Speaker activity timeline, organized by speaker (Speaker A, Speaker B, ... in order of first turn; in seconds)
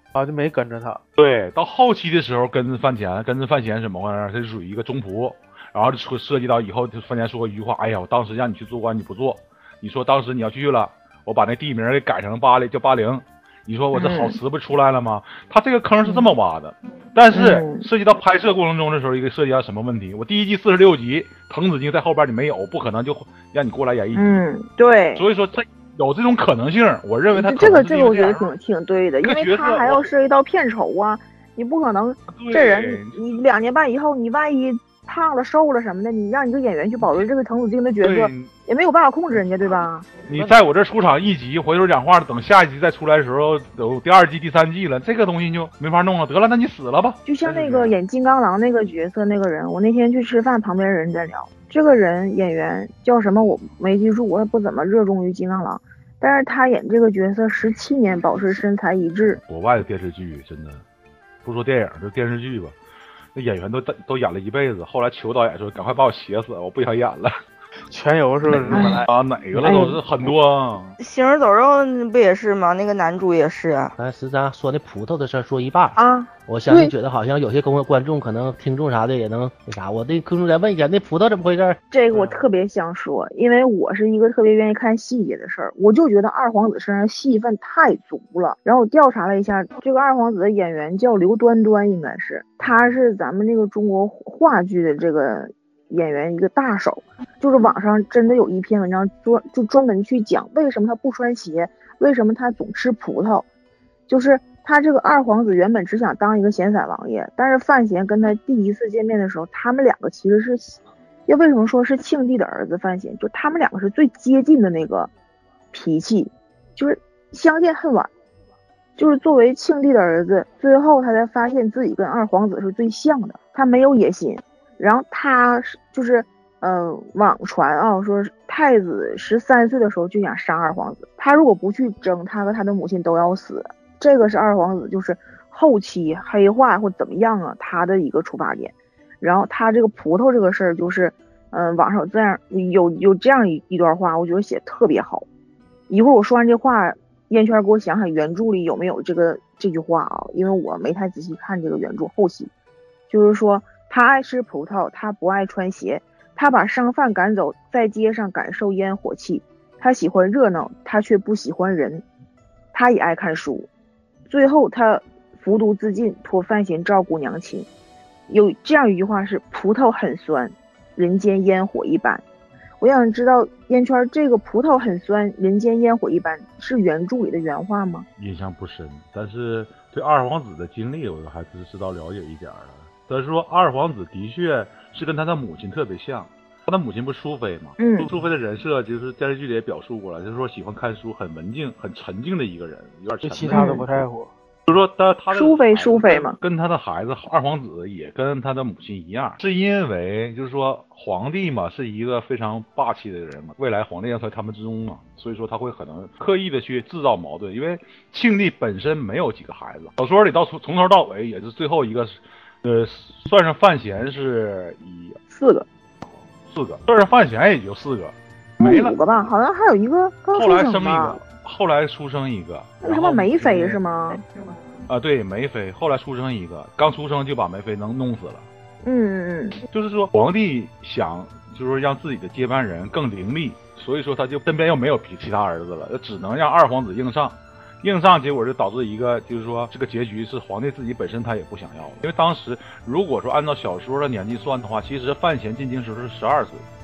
Speaker A: 0.1-1.0, 67.9-69.1, 82.1-82.5, 193.2-194.3
Speaker B: 1.2-24.4, 25.1-28.5, 29.2-30.1, 32.3-33.2, 38.0-38.5, 40.3-48.0, 59.5-60.8, 61.4-62.8, 63.4-67.3, 68.5-71.0, 178.2-193.8, 194.7-215.2, 216.5-219.0, 220.3-223.8, 224.9-228.4, 229.7-246.6
Speaker C: 13.9-14.4, 16.0-16.3, 17.3-17.9, 24.1-25.2, 27.3-40.2, 47.2-59.4, 68.7-69.1, 69.6-70.0, 76.0-76.9, 81.9-103.4, 104.1-115.1, 115.7-118.1, 119.0-145.3, 145.9-152.5, 153.1-162.0, 162.7-163.7, 164.3-167.7, 168.3-172.2, 172.8-178.1, 187.8-188.1, 193.5-193.8, 195.3-196.4, 215.3-215.7, 218.6-221.2, 222.8-224.2, 228.8-229.6
Speaker D: 71.0-73.9
Speaker E: 74.0-81.8